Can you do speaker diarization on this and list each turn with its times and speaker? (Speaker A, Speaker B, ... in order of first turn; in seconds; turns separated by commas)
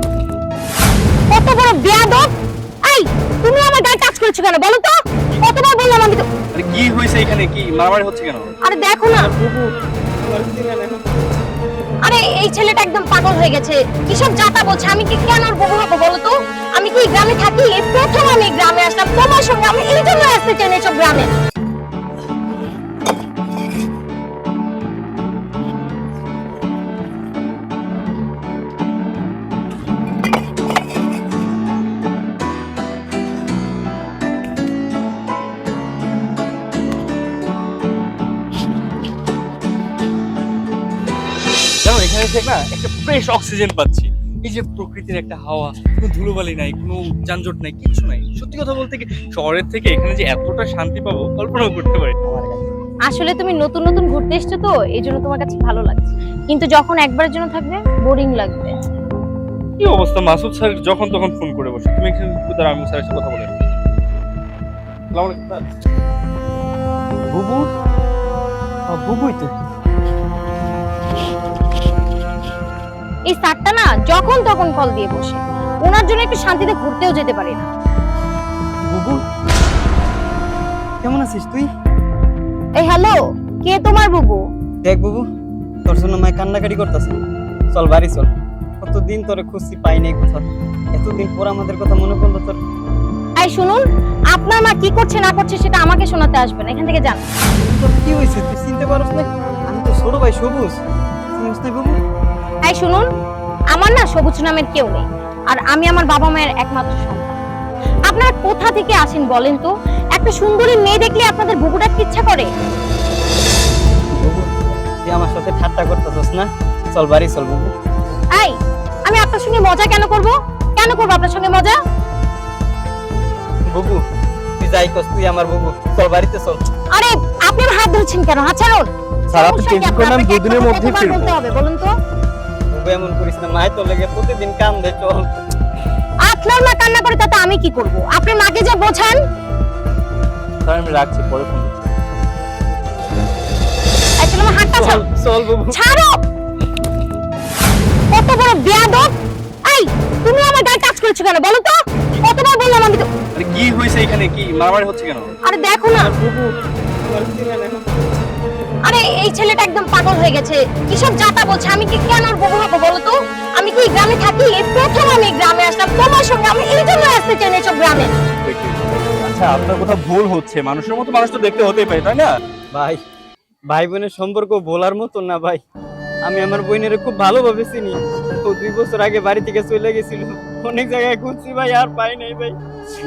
Speaker A: 1.3-2.3, Speaker A: 2.8-6.2, Speaker B: 6.5-8.5, Speaker A: 8.6-9.3, Speaker C: 9.2-9.7, Speaker C: 10.2-11.0, Speaker A: 12.0-21.3, Speaker B: 41.8-52.2, Speaker A: 53.1-58.7, Speaker B: 59.8-63.5, Speaker B: 65.1-65.6, Speaker B: 67.3-67.6, Speaker C: 68.9-69.5, Speaker A: 73.3-77.7, Speaker C: 78.8-79.2, Speaker C: 81.0-81.7, Speaker A: 82.7-84.4, Speaker C: 84.8-85.2, Speaker C: 85.9-87.2, Speaker C: 87.7-88.3, Speaker C: 88.8-92.6, Speaker A: 93.4-97.2, Speaker C: 97.6-100.7, Speaker C: 101.3-102.0, Speaker A: 102.7-103.0, Speaker A: 103.7-107.3, Speaker A: 108.1-112.5, Speaker C: 114.1-114.5, Speaker C: 115.0-117.7, Speaker A: 119.0-121.8, Speaker C: 123.7-124.0, Speaker C: 124.6-126.6, Speaker A: 126.9-131.9, Speaker B: 129.3-131.4, Speaker C: 132.7-135.3, Speaker A: 136.2-139.2, Speaker B: 140.6-141.9, Speaker A: 144.2-145.0, Speaker C: 144.8-145.8, Speaker A: 145.7-146.1, Speaker A: 148.1-149.1, Speaker A: 149.7-153.0, Speaker B: 153.3-155.3, Speaker A: 155.4-156.1, Speaker C: 155.9-156.5, Speaker C: 157.1-157.8, Speaker A: 158.8-168.1, Speaker B: 168.4-172.3, Speaker C: 172.7-173.0, Speaker C: 173.7-175.6, Speaker C: 176.2-182.6